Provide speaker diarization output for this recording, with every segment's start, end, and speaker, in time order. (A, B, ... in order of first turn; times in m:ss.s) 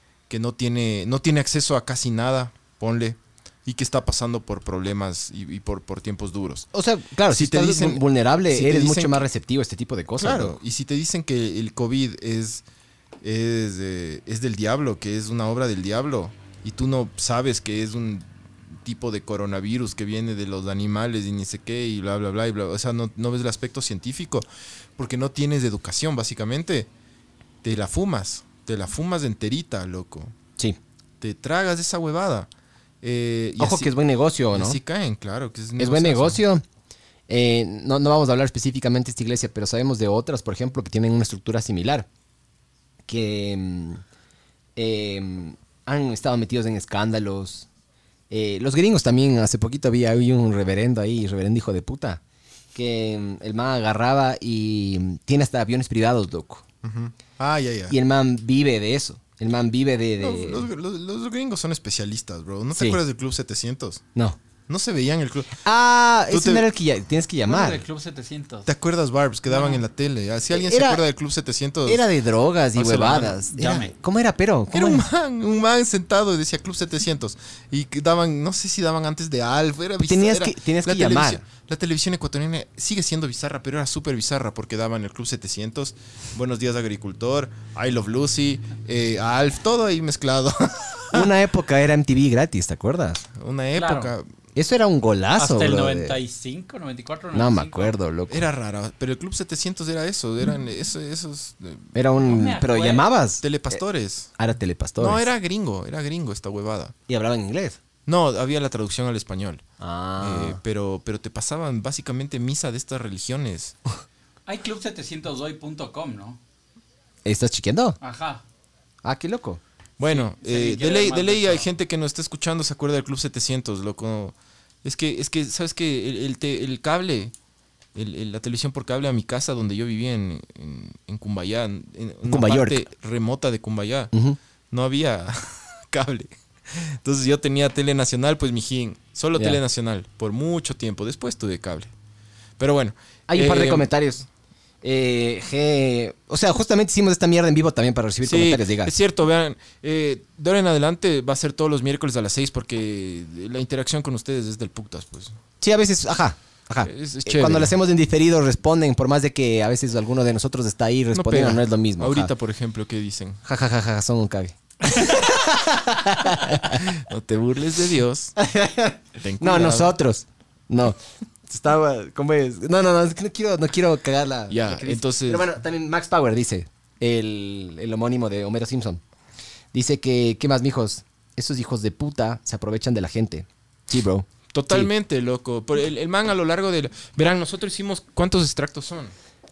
0:00.3-0:06.7 A
0:06.7-0:10.6 B
0:07.3-0:09.3 A
0:10.2-0:12.6 A
0:13.2-0:24.5 A
0:25.0-0:26.9 A
0:27.6-0:30.4 A
0:31.2-0:32.5 A
0:33.0-0:33.9 A
0:33.6-0:34.8 B
0:34.5-0:36.4 A
0:35.8-0:36.6 B
0:37.3-0:42.1 B
0:43.1-0:44.0 B
0:44.8-0:47.7 B
0:48.3-0:52.2 B
0:52.7-0:56.6 B
0:56.8-0:58.0 A
0:57.9-1:00.7 B
1:00.2-1:04.0 A
1:02.8-1:03.0 B
1:04.7-1:05.6 A
1:05.6-1:07.8 B
1:06.3-1:06.7 A
1:07.5-1:08.7 C
1:08.6-1:12.1 A
1:10.5-1:11.0 B
1:11.8-1:15.0 B
1:12.8-1:13.4 A
1:13.5-1:13.9 C
1:14.7-1:31.3 A
1:20.1-1:21.4 B
1:31.1-1:33.2 B
1:33.3-1:34.3 A
1:33.8-1:34.1 C
1:34.6-1:36.2 B
1:35.4-1:38.0 C
1:37.3-1:38.5 B
1:38.3-1:42.0 A
1:42.0-1:43.8 B
1:42.3-1:43.1 C
1:43.4-1:44.3 A
1:44.4-1:45.3 B
1:45.0-1:46.9 A
1:47.1-1:47.8 B
1:48.1-1:49.6 A
1:49.8-1:50.6 B
1:50.2-1:53.8 A
1:54.5-1:56.4 C
1:57.2-1:58.0 B
1:58.0-1:58.4 C
1:59.0-1:59.6 B
2:00.0-2:07.3 A
2:00.1-2:01.7 C
2:08.0-2:14.1 A
2:12.3-2:12.8 B
2:14.7-2:21.9 A
2:22.6-2:23.9 A
2:23.3-2:24.3 B
2:24.8-2:28.9 B
2:28.2-2:35.4 A
2:35.6-2:42.3 B
2:36.8-2:37.8 A
2:41.1-2:43.4 A
2:43.4-2:46.8 B
2:46.7-2:48.4 A
2:48.4-2:59.0 B
2:49.2-2:50.0 A
2:54.5-2:55.5 A
2:59.7-3:04.9 B
3:04.5-3:09.1 A